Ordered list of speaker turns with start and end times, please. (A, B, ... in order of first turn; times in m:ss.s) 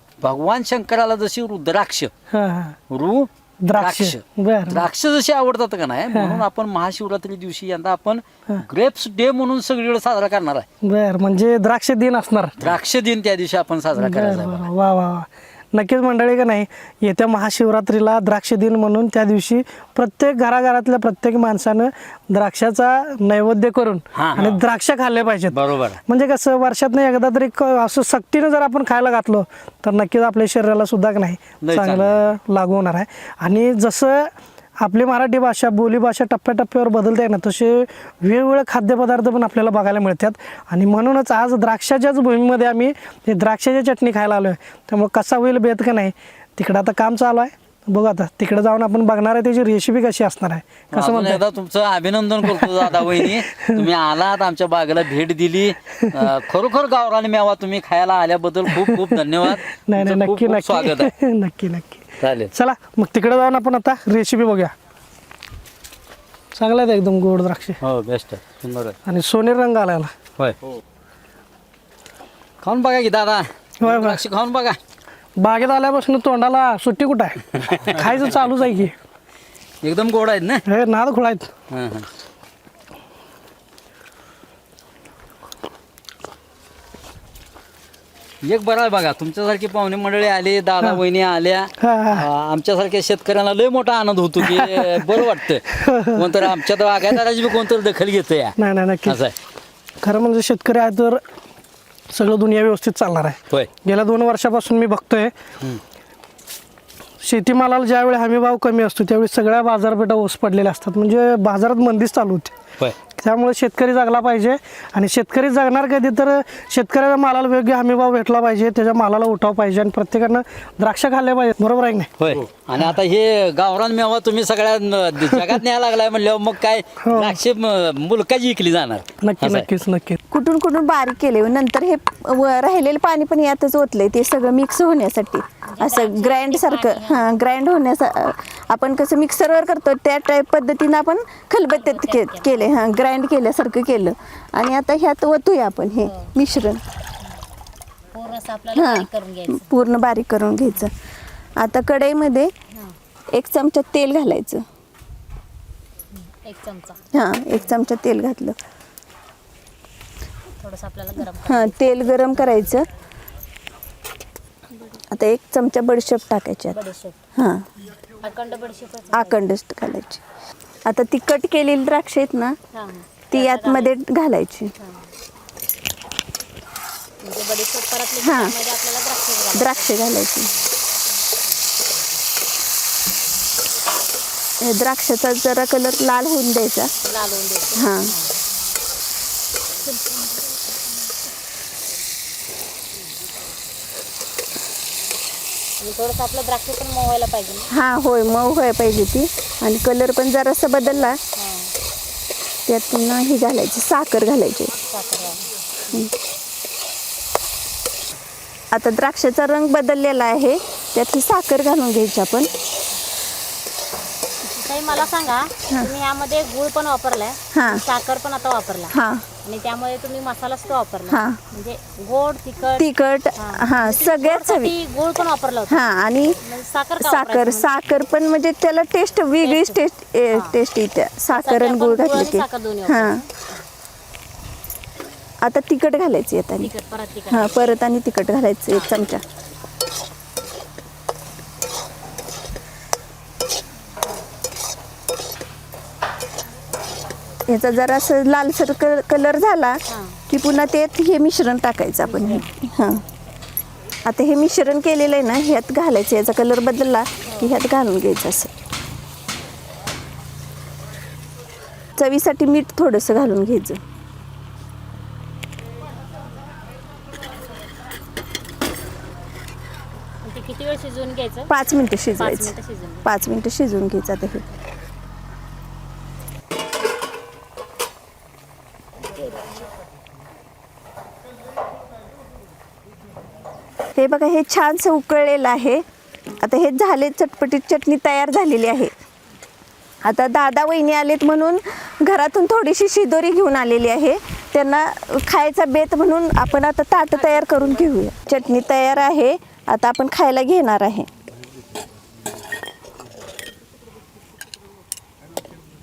0:00.2-0:02.1 A
0:02.3-0:02.8 B
0:02.9-0:10.7 A
0:03.6-0:04.8 B
0:06.1-0:06.4 B
0:10.8-0:12.6 B
0:12.6-0:14.7 A
0:14.0-0:51.4 B
0:24.2-0:24.6 A
0:25.5-0:26.0 A
0:31.6-0:32.2 A
0:50.9-1:01.1 A
0:52.4-0:53.8 B
0:55.9-0:56.2 B
0:58.7-1:04.7 B
1:02.2-1:02.5 A
1:06.6-1:07.8 B
1:07.8-1:09.0 A
1:09.1-1:10.1 B
1:12.6-1:14.8 A
1:13.8-1:14.2 B
1:15.4-1:19.0 B
1:19.8-1:20.6 A
1:20.7-1:21.5 B
1:21.7-1:22.1 A
1:28.4-1:38.6 A
1:31.8-1:32.3 B
1:34.4-1:36.6 B
1:38.6-1:39.2 B
1:39.1-1:39.3 A
1:40.0-1:41.2 B
1:42.1-1:45.3 B
1:47.2-1:52.6 B
1:53.1-2:02.1 B
2:02.2-2:09.7 A
2:05.3-2:05.6 B
2:07.0-2:07.4 B
2:09.2-2:10.2 B
2:10.3-2:26.8 C
2:15.7-2:17.3 D
2:21.7-2:22.8 D
2:26.0-2:26.3 D
2:28.1-2:29.7 D
2:28.8-2:30.9 C
2:31.6-2:32.5 C
2:33.3-2:34.6 C
2:36.1-2:37.0 D
2:37.2-2:38.6 C
2:40.6-2:42.5 D
2:41.5-2:42.9 C
2:45.1-2:46.8 C
2:46.7-2:47.2 D
2:47.4-2:47.6 C
2:48.2-2:49.4 D
2:49.1-2:50.2 C
2:50.9-2:52.6 C
2:52.7-2:53.9 D
2:53.3-2:54.7 C
2:57.2-2:59.9 D
2:58.2-2:58.5 C
2:59.5-3:00.5 C
3:04.6-3:06.9 C
3:07.0-3:08.4 D
3:07.8-3:08.1 C
3:15.8-3:17.7 D
3:17.7-3:21.2 C
3:21.0-3:21.7 D
3:22.7-3:24.7 C
3:24.9-3:25.5 D
3:28.7-3:32.5 C
3:34.5-3:42.9 D
3:37.6-3:37.8 C
3:38.9-3:39.2 C
3:41.1-3:41.4 C
3:42.8-3:44.7 C
3:43.4-3:45.8 D
3:45.7-3:46.4 C
3:46.4-3:47.6 D
3:47.0-3:53.2 C
3:49.4-3:49.8 D
3:51.4-3:53.2 D
3:55.4-3:56.7 C
3:56.6-3:57.7 D
3:57.3-3:59.2 C
4:07.5-4:13.0 C
4:09.9-4:10.2 D
4:12.0-4:12.4 D
4:14.1-4:18.5 C
4:17.2-4:17.5 D
4:22.0-4:23.8 C
4:30.2-4:31.5 D
4:31.5-4:32.5 C
4:32.2-4:33.1 D
4:33.0-4:34.4 C
4:44.0-4:45.8 C
4:46.4-4:48.9 C
4:50.0-5:01.1 C